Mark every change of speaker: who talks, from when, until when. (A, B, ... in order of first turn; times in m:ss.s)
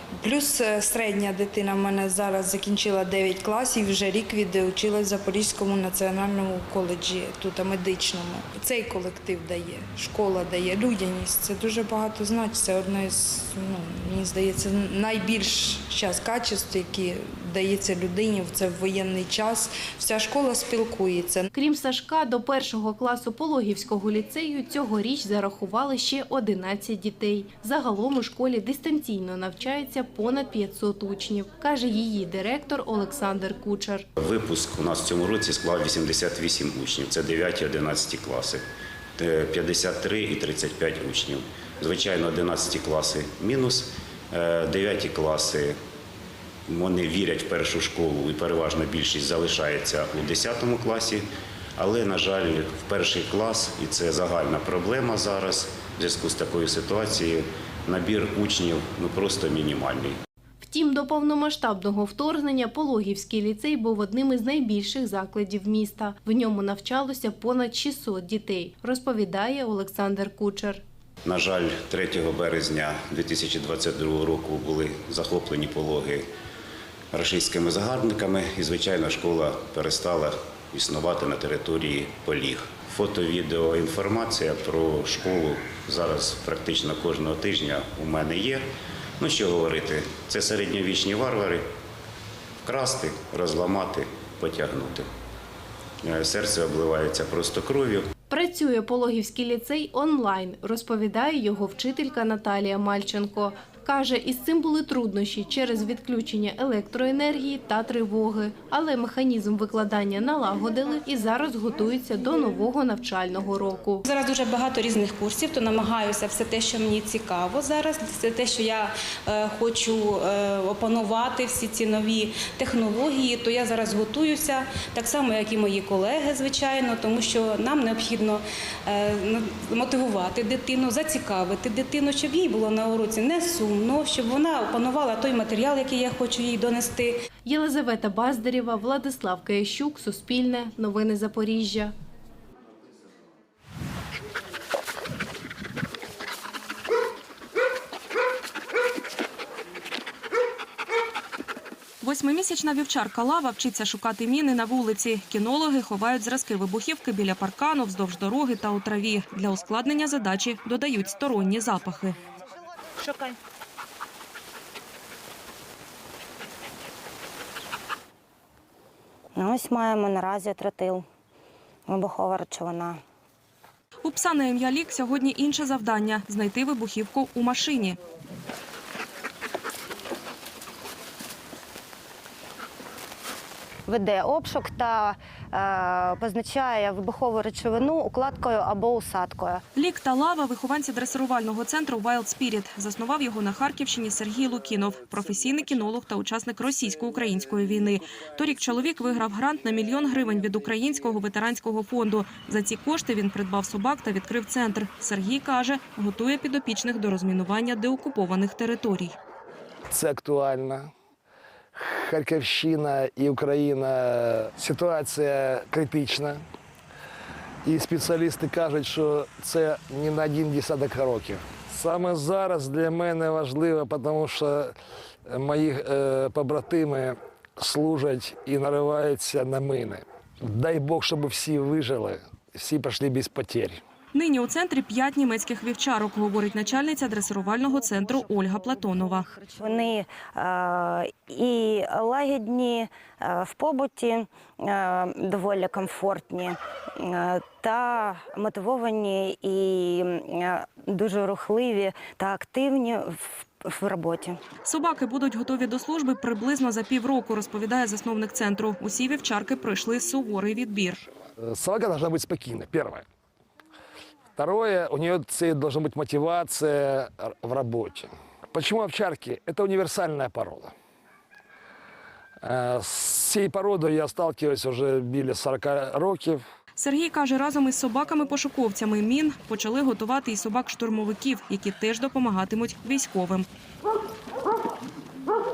0:00.2-0:21.5 A
0:21.5-0:34.1 B
0:34.2-0:38.6 C
0:39.2-0:45.8 C
0:46.7-0:51.2 C
0:51.8-1:00.2 C
1:00.6-1:10.8 B
1:11.2-1:16.3 C
1:17.1-1:28.7 C
1:29.2-1:31.6 C
1:32.6-1:35.1 C
1:36.0-1:38.1 C
1:38.3-1:54.0 B
1:54.0-2:17.2 D
2:17.5-2:21.9 B
2:32.0-2:42.2 E
2:49.4-2:51.0 F
2:51.9-2:53.0 F
2:54.0-2:58.0 E
3:03.9-3:09.6 F
3:09.7-3:29.2 E
3:29.9-3:30.9 G
3:31.8-3:36.4 G
3:37.8-3:41.7 G
3:39.5-3:40.0 A
3:41.2-3:43.6 A
3:43.0-3:44.7 G
3:45.3-3:50.0 G
3:50.5-3:51.8 A
3:51.5-3:53.8 G
3:52.5-3:53.6 A
3:54.1-3:59.3 E
3:59.2-4:14.4 F
4:14.6-4:21.1 E
4:21.4-4:23.0 A
4:21.8-4:22.2 G
4:24.5-4:28.1 G
4:28.7-4:30.7 G
4:32.4-4:36.4 G
4:36.8-4:43.5 E